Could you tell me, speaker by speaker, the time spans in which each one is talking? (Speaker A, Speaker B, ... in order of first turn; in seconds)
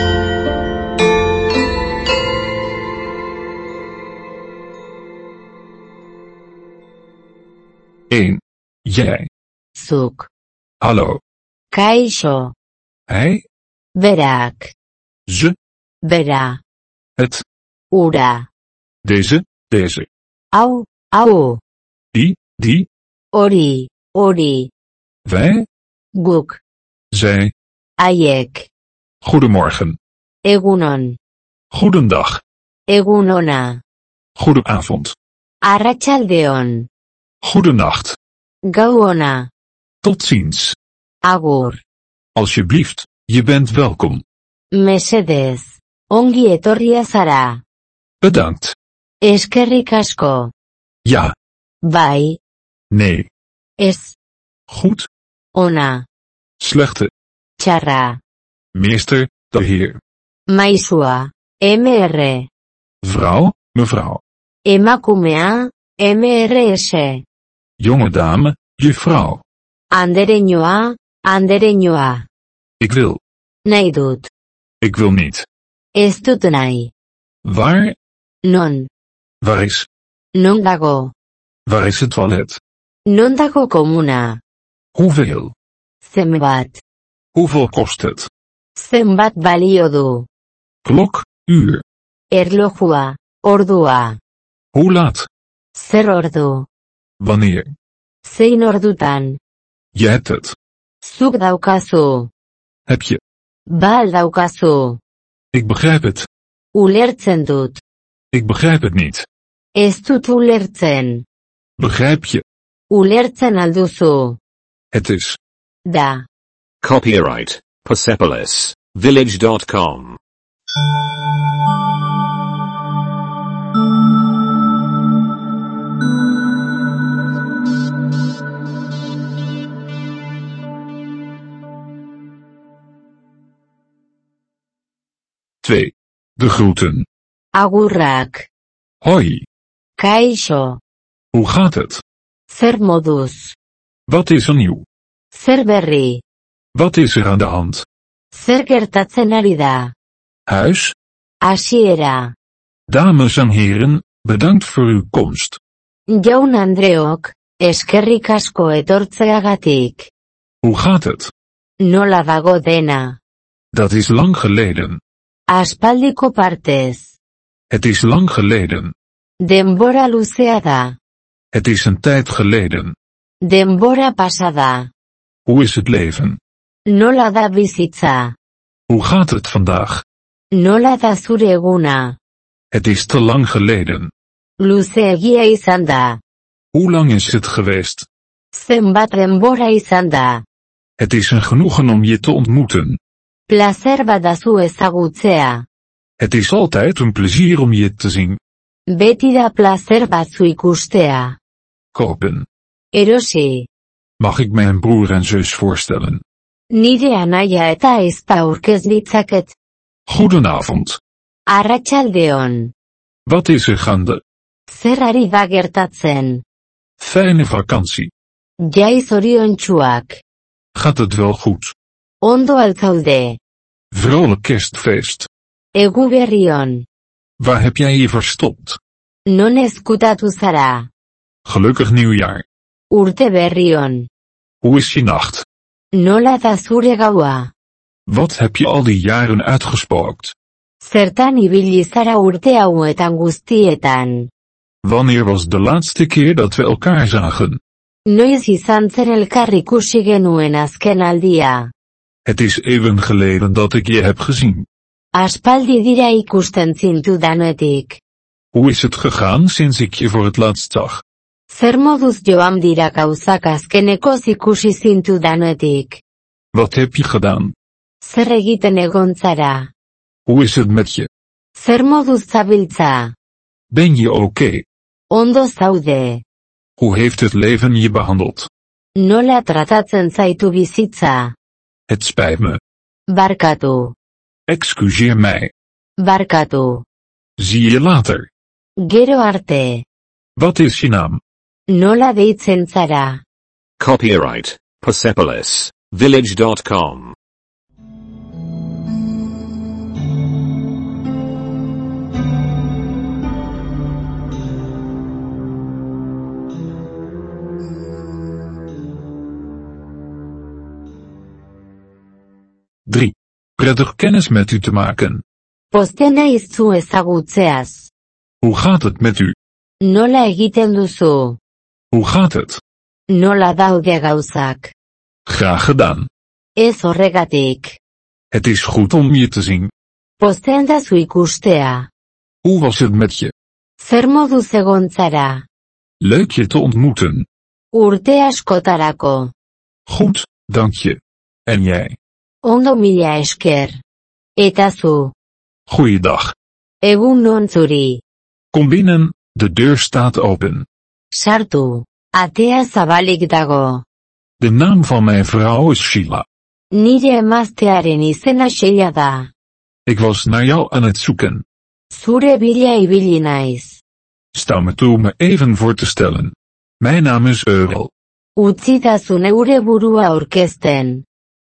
Speaker A: 8.1-9.3, 10.8-11.2, 13.1-13.4, 15.3-15.6, 17.2-17.4, 19.0-20.1, 22.1-22.9, 25.2-25.6, 27.1-27.5, 29.2-30.0, 31.7-32.4, 34.4-35.1, 37.4-38.2, 40.0-40.8, 42.3-44.2, 48.2-48.7, 51.0-51.3, 52.9-53.3, 54.7-55.1, 56.6-57.1, 58.7-60.0, 63.0-64.2, 67.8-69.4, 72.8-73.2, 74.8-75.5, 77.4-78.0, 79.4-79.9, 81.7-82.6, 84.9-85.5, 87.3-88.3, 90.8-91.8, 94.7-95.3, 97.2-97.7, 99.9-100.5, 102.9-103.2, 105.5-106.3, 108.3-109.2, 111.8-112.4, 114.9-115.4, 135.6-137.1, 139.0-139.4, 141.3-142.0, 144.1-144.8, 146.7-147.8, 150.5-150.9, 152.9-155.6, 160.6-161.3, 163.7-165.0, 167.7-168.9, 171.5-172.9, 175.4-176.4, 178.9-180.0, 182.7-184.1, 186.7-188.1, 191.0-193.0, 196.2-198.4, 201.9-202.4, 204.2-206.2, 210.1-211.0, 213.2-214.2, 217.0-218.1, 220.7-221.7, 223.9-225.3, 227.4-228.8, 231.4-232.4, 234.6-235.4, 238.1-240.3, 244.8-247.6, 252.2-254.7, 258.5-261.0, 266.5-267.5, 270.2-271.1, 273.7-274.6, 276.8-278.5, 281.9-282.6, 284.5-285.5, 287.4-288.3, 290.4-291.2, 312.9-315.2, 318.4-319.3, 321.9-322.6, 325.2-326.1, 328.3-329.7, 332.4-333.3, 336.0-337.2, 339.9-342.0, 345.7-346.3, 348.5-350.6, 354.4-356.2, 359.9-361.4, 364.3-367.9
Speaker B: 9.7-10.3, 11.7-12.5, 13.9-14.7, 16.0-16.6, 17.9-18.5, 20.5-21.6, 23.3-24.7, 26.1-26.6, 28.0-28.7, 30.4-31.2, 32.9-33.8, 35.6-36.9, 38.7-39.5, 41.2-41.8, 44.7-47.6, 49.2-50.5, 51.8-52.4, 53.8-54.1, 55.5-56.0, 57.6-58.2, 60.5-62.5, 64.7-67.2, 69.9-72.3, 73.7-74.3, 76.0-76.9, 78.4-78.9, 80.3-81.1, 83.0-84.4, 86.0-86.8, 88.8-90.3, 92.3-94.2, 95.7-96.7, 98.2-99.4, 101.0-102.3, 103.7-105.0, 106.7-107.8, 109.8-111.2, 112.9-114.4, 115.9-116.2, 137.5-138.5, 140.0-140.8, 142.5-143.6, 145.3-146.2, 148.3-149.9, 151.4-152.3, 156.1-160.1, 161.8-163.2, 165.5-167.2, 169.4-170.9, 173.4-174.9, 176.9-178.3, 180.5-182.2, 184.6-186.2, 188.5-190.4, 193.5-195.7, 198.9-201.4, 202.9-203.7, 206.7-209.5, 211.5-212.7, 214.7-216.4, 218.6-220.2, 222.2-223.4, 225.7-226.8, 229.3-230.9, 232.9-234.1, 235.9-237.5, 240.8-244.3, 248.1-251.7, 255.1-258.0, 261.5-266.0, 268.0-269.7, 271.6-273.1, 275.1-276.2, 278.9-281.3, 283.1-283.9, 286.0-286.8, 288.8-289.8, 291.7-293.2, 315.7-317.9, 319.8-321.4, 323.1-324.7, 326.6-327.8, 330.2-331.9, 333.8-335.4, 337.7-339.3, 342.4-343.8, 344.4-345.1, 346.8-348.0, 351.1-353.8, 356.7-359.3, 361.9-363.8, 368.4-371.0
Speaker C: 116.8-120.2, 293.8-297.1